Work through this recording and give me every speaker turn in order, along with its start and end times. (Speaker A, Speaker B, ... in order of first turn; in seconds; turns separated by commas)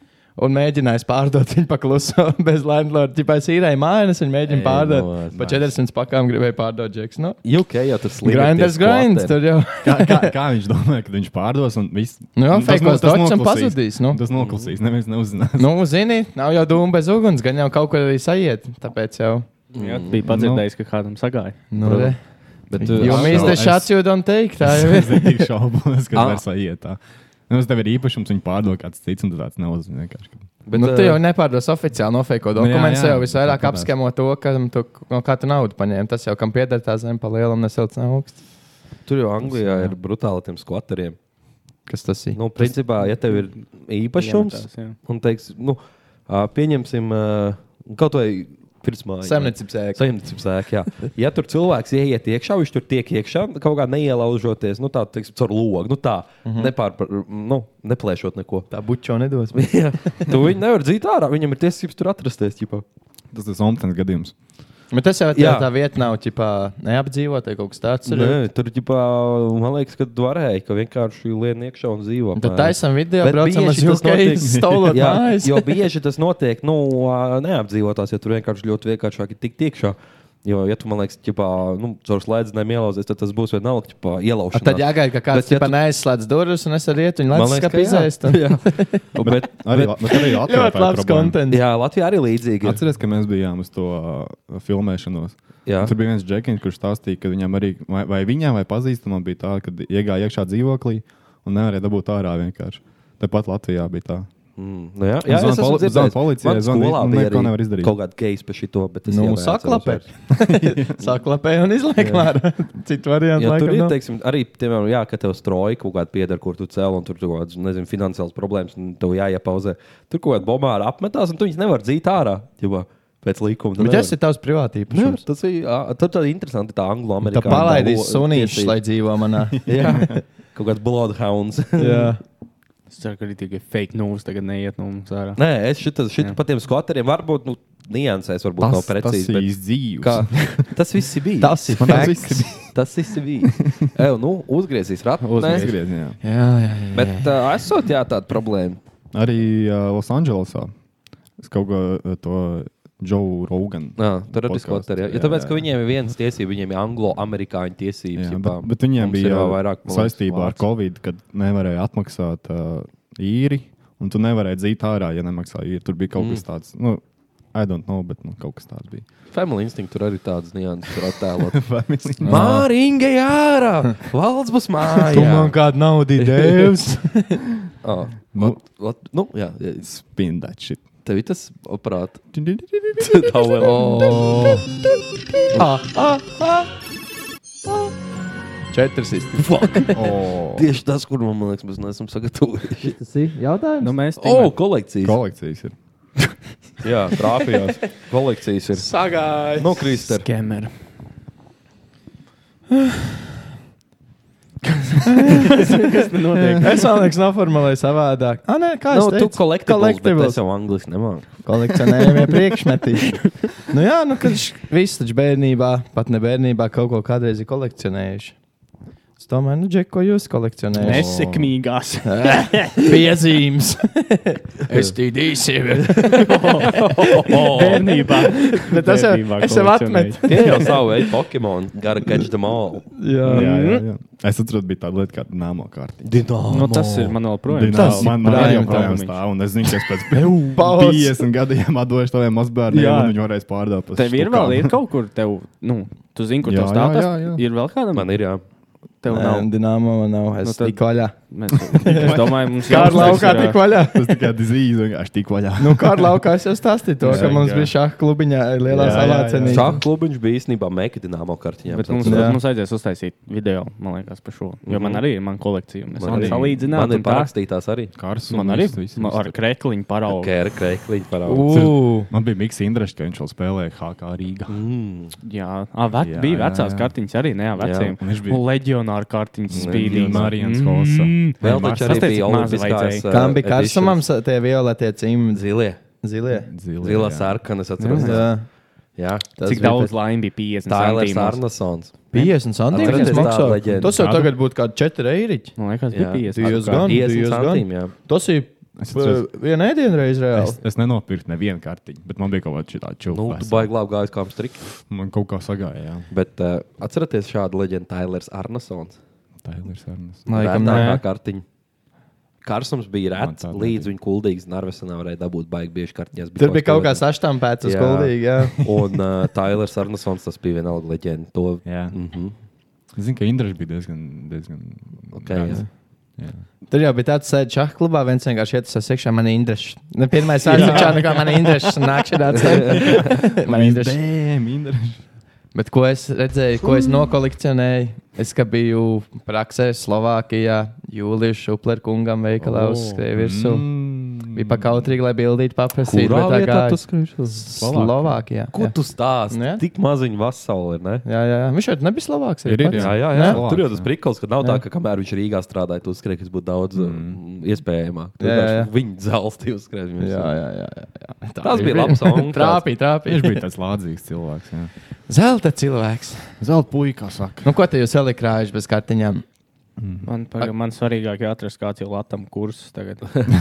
Speaker A: 0.3-7.4, Speaker B: 4.5-5.7, Speaker B: 7.4-9.3, Speaker A: 8.2-10.3, Speaker C: 9.8-15.8, Speaker A: 12.3-14.2, Speaker B: 14.3-14.7, Speaker A: 15.6-19.5, Speaker B: 19.7-20.1, Speaker D: 19.8-21.6, Speaker C: 20.2-20.6, Speaker A: 21.7-22.2, Speaker B: 21.8-22.1, Speaker B: 22.7-23.6, Speaker A: 22.8-25.5, Speaker C: 23.0-30.4, Speaker B: 26.1-26.4, Speaker B: 30.6-31.2, Speaker A: 30.7-38.4, Speaker C: 32.5-33.9, Speaker B: 39.1-41.2, Speaker C: 39.5-39.9, Speaker A: 41.9-42.8, Speaker B: 42.3-58.7, Speaker D: 44.2-45.0, Speaker A: 49.2-50.0, Speaker A: 56.5-56.7, Speaker A: 58.7-60.4, Speaker B: 59.5-62.8, Speaker C: 63.3-64.3, Speaker A: 64.9-68.4, Speaker B: 65.3-65.7, Speaker B: 68.0-85.7, Speaker A: 72.4-75.8, Speaker C: 74.4-75.0, Speaker A: 84.5-89.3, Speaker B: 87.3-90.0, Speaker C: 89.1-91.4, Speaker A: 90.1-91.6, Speaker B: 91.5-92.8, Speaker C: 92.6-104.3, Speaker B: 95.7-95.9, Speaker B: 104.6-110.1, Speaker C: 105.2-108.0, Speaker A: 109.1-113.9, Speaker C: 110.3-111.0, Speaker B: 112.0-112.3, Speaker B: 113.3-124.2, Speaker A: 123.8-125.2, Speaker B: 124.9-128.8, Speaker A: 127.3-130.1, Speaker C: 127.3-127.8, Speaker C: 129.5-130.2, Speaker B: 129.7-132.1, Speaker A: 131.8-132.2, Speaker D: 132.9-135.4, Speaker B: 135.3-145.8, Speaker C: 138.6-140.8, Speaker A: 141.4-142.6, Speaker C: 141.7-142.8, Speaker C: 143.4-143.8, Speaker D: 145.2-145.7, Speaker C: 145.4-146.2, Speaker A: 146.2-147.3, Speaker B: 146.9-148.8, Speaker C: 149.1-150.7, Speaker C: 151.4-155.7, Speaker B: 154.0-160.6, Speaker C: 158.1-169.1, Speaker B: 166.2-166.4, Speaker B: 169.3-171.7, Speaker C: 171.5-172.7, Speaker B: 172.2-175.6, Speaker A: 172.3-172.6, Speaker A: 174.8-177.4, Speaker B: 176.2-176.7, Speaker B: 177.8-179.8, Speaker C: 178.3-178.6, Speaker C: 179.8-180.8, Speaker B: 181.0-182.2, Speaker C: 182.3-183.4, Speaker B: 183.0-184.1, Speaker A: 183.6-184.7, Speaker A: 185.5-186.7, Speaker A: 188.7-189.5, Speaker B: 189.3-192.9, Speaker C: 189.9-190.7, Speaker A: 192.8-193.9, Speaker D: 193.8-194.5, Speaker B: 194.2-195.2, Speaker C: 195.0-195.7, Speaker B: 196.8-198.9, Speaker A: 198.7-199.9, Speaker B: 199.6-200.3, Speaker D: 200.1-200.7, Speaker A: 202.7-203.0, Speaker D: 204.6-206.8, Speaker A: 205.2-205.5, Speaker A: 206.6-210.4, Speaker B: 208.9-211.4, Speaker A: 211.4-218.3, Speaker A: 219.2-221.1, Speaker C: 220.7-221.5, Speaker D: 220.8-222.9, Speaker A: 222.1-226.6, Speaker B: 225.7-228.1, Speaker D: 226.2-226.8, Speaker A: 227.4-230.8, Speaker D: 227.5-230.6, Speaker B: 230.3-232.9, Speaker A: 233.0-233.6, Speaker C: 233.2-236.2, Speaker D: 233.3-233.8, Speaker B: 236.0-237.2, Speaker D: 236.5-239.2, Speaker C: 237.5-244.7, Speaker A: 237.7-239.1, Speaker A: 240.2-241.2, Speaker D: 242.7-243.1, Speaker D: 243.9-248.2, Speaker C: 246.4-247.4, Speaker B: 247.9-248.4, Speaker D: 249.0-249.5, Speaker A: 249.1-251.1, Speaker D: 250.4-253.6, Speaker C: 251.7-256.2, Speaker A: 251.8-254.2, Speaker A: 255.6-259.7, Speaker D: 257.0-257.7, Speaker C: 257.1-257.4, Speaker C: 258.7-259.8, Speaker B: 258.8-262.4, Speaker D: 261.7-267.3, Speaker A: 262.1-262.4, Speaker B: 264.6-265.0, Speaker B: 266.0-267.9, Speaker C: 266.0-266.6, Speaker C: 267.9-269.4, Speaker D: 268.3-270.3, Speaker B: 270.1-271.7, Speaker A: 271.2-272.1, Speaker C: 271.5-274.6, Speaker B: 274.5-275.1, Speaker D: 275.2-283.0, Speaker C: 276.0-276.9, Speaker B: 277.6-277.9, Speaker C: 278.0-278.4, Speaker C: 279.5-282.4, Speaker B: 279.5-280.4, Speaker B: 281.4-284.0, Speaker A: 283.1-286.5, Speaker B: 285.3-285.8, Speaker C: 286.3-287.4, Speaker B: 286.8-288.3, Speaker D: 287.8-288.2, Speaker A: 288.0-288.5, Speaker B: 288.9-289.9, Speaker A: 289.4-289.8, Speaker D: 289.4-291.4, Speaker B: 290.6-292.1, Speaker A: 292.1-295.6, Speaker D: 292.1-293.4, Speaker B: 292.7-293.9, Speaker C: 293.5-294.3, Speaker D: 295.6-296.9, Speaker B: 295.9-297.9, Speaker A: 296.3-300.6, Speaker C: 298.8-299.2, Speaker C: 300.3-303.7, Speaker B: 303.1-304.6, Speaker C: 304.8-306.1, Speaker B: 306.1-309.0, Speaker C: 309.4-310.9, Speaker A: 310.3-311.0, Speaker B: 310.3-311.4, Speaker B: 312.4-322.3, Speaker C: 313.2-313.9, Speaker A: 316.4-318.9, Speaker C: 321.6-322.0, Speaker C: 322.9-325.6, Speaker B: 325.1-325.6, Speaker C: 326.2-326.4, Speaker A: 326.7-334.0, Speaker B: 330.4-331.1, Speaker C: 330.5-331.6, Speaker B: 332.3-333.2, Speaker C: 332.4-335.0, Speaker A: 335.5-346.8, Speaker C: 342.4-344.9, Speaker B: 345.8-347.5, Speaker A: 347.3-348.7, Speaker C: 347.6-348.2, Speaker B: 348.5-351.1, Speaker A: 349.3-349.6, Speaker A: 351.0-353.4, Speaker C: 352.4-353.9, Speaker B: 352.7-360.3, Speaker C: 356.7-357.2, Speaker A: 358.2-358.7, Speaker A: 360.0-363.4, Speaker B: 361.4-362.6, Speaker C: 363.0-364.7, Speaker A: 365.1-366.3, Speaker C: 366.4-367.5, Speaker A: 367.4-369.2, Speaker C: 369.8-370.1, Speaker D: 370.0-373.3